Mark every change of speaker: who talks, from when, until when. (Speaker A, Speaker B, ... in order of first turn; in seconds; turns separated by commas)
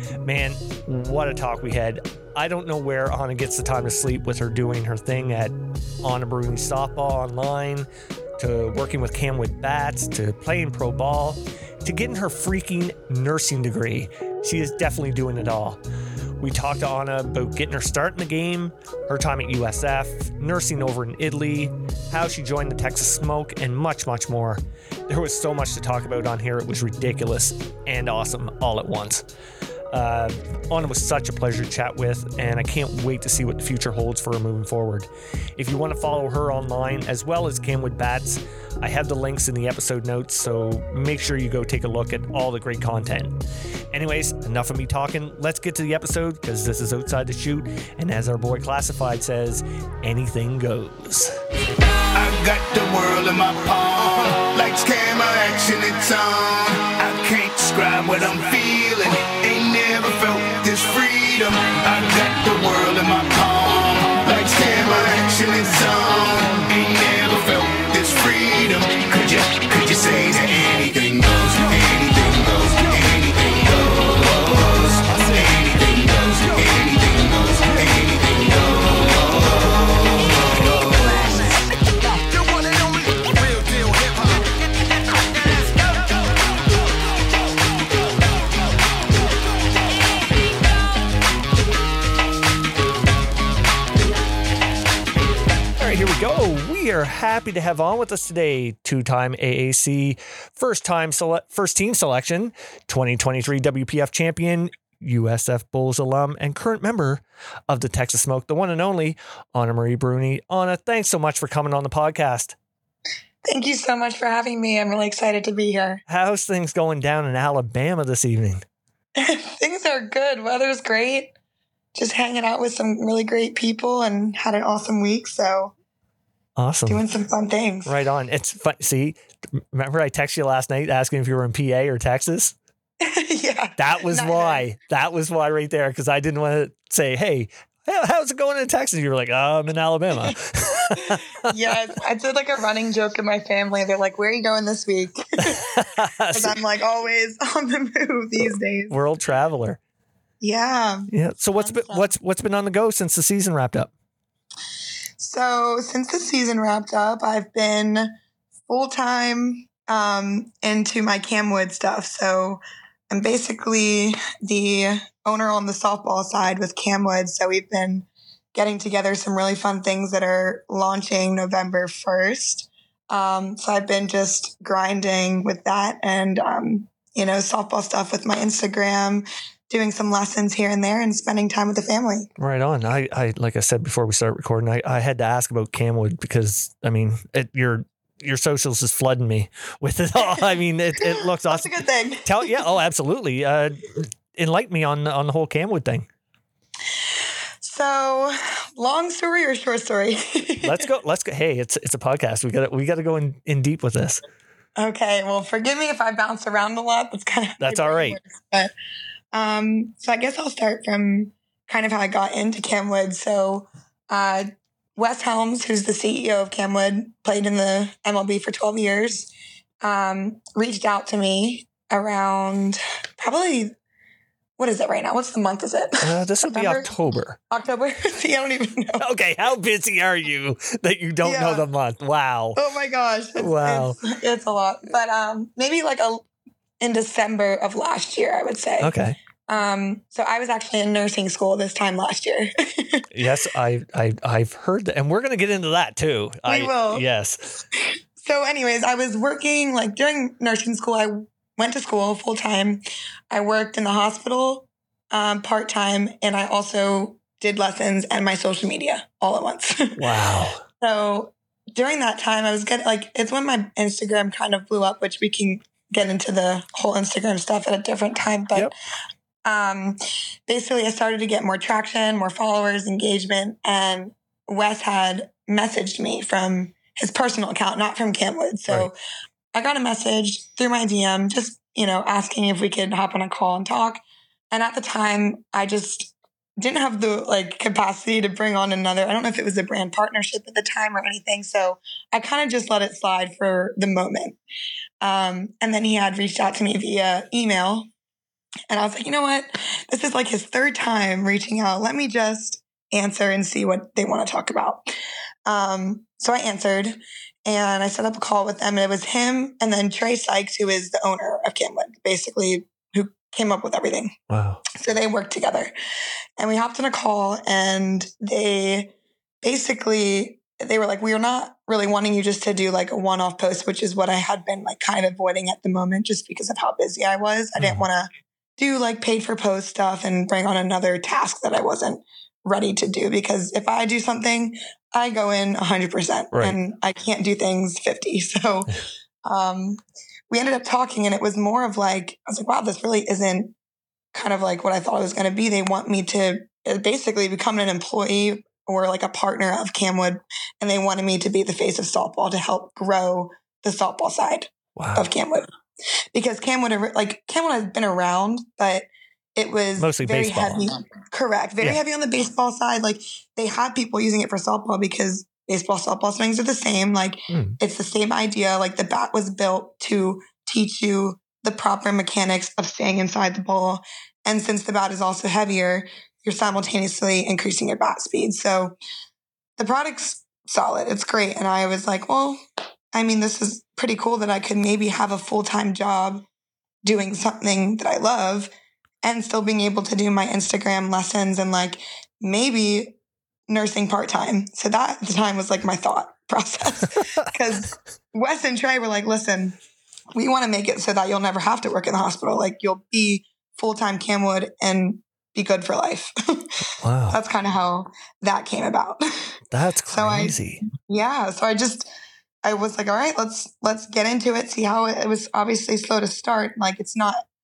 Speaker A: 0.2-15.8, Speaker A: 16.4-29.3, Speaker A: 29.9-51.4, Speaker B: 52.1-81.6, Speaker B: 82.2-84.5, Speaker B: 85.4-86.0, Speaker A: 95.8-112.5, Speaker C: 113.4-116.0, Speaker A: 116.1-118.7, Speaker C: 119.2-121.3, Speaker C: 121.9-125.7, Speaker A: 126.6-127.0, Speaker C: 126.9-127.9, Speaker A: 127.9-132.6, Speaker C: 133.0-134.7, Speaker A: 133.8-141.6, Speaker C: 140.9-145.8, Speaker A: 145.4-146.6, Speaker C: 146.3-149.0, Speaker A: 148.4-149.8, Speaker C: 150.4-152.1, Speaker A: 151.1-153.9, Speaker C: 155.2-158.1, Speaker C: 158.7-182.3, Speaker A: 182.4-191.7, Speaker C: 191.0-192.7, Speaker A: 192.2-196.1, Speaker C: 197.6-200.8, Speaker A: 200.6-204.2, Speaker C: 204.8-208.7, Speaker A: 207.6-208.2, Speaker C: 209.3-219.3, Speaker C: 219.8-223.7, Speaker C: 224.6-226.9, Speaker A: 226.0-227.4, Speaker C: 227.5-229.1, Speaker A: 229.0-232.6, Speaker C: 231.2-231.6, Speaker C: 232.6-236.2, Speaker A: 233.4-234.0, Speaker C: 236.8-238.9, Speaker A: 238.8-239.2, Speaker C: 239.5-243.1, Speaker A: 243.1-247.6, Speaker C: 246.5-247.0, Speaker C: 248.2-260.0, Speaker A: 260.0-260.6, Speaker C: 260.8-268.7, Speaker C: 269.4-278.9, Speaker C: 279.6-294.4, Speaker C: 295.0-297.9, Speaker C: 298.7-304.8, Speaker C: 305.5-314.1, Speaker A: 314.3-314.6, Speaker C: 314.8-315.7, Speaker C: 316.4-338.7, Speaker A: 327.6-327.9, Speaker C: 339.2-343.5, Speaker C: 344.1-355.5, Speaker A: 354.8-355.1, Speaker C: 356.1-378.8, Speaker A: 359.8-360.7, Speaker A: 367.3-367.6, Speaker C: 379.6-382.4, Speaker C: 382.9-386.2, Speaker C: 386.8-388.5, Speaker C: 389.0-392.9, Speaker C: 393.5-399.6, Speaker C: 400.1-409.4, Speaker A: 406.8-407.2, Speaker A: 409.5-410.6, Speaker C: 409.9-411.9, Speaker C: 412.4-417.3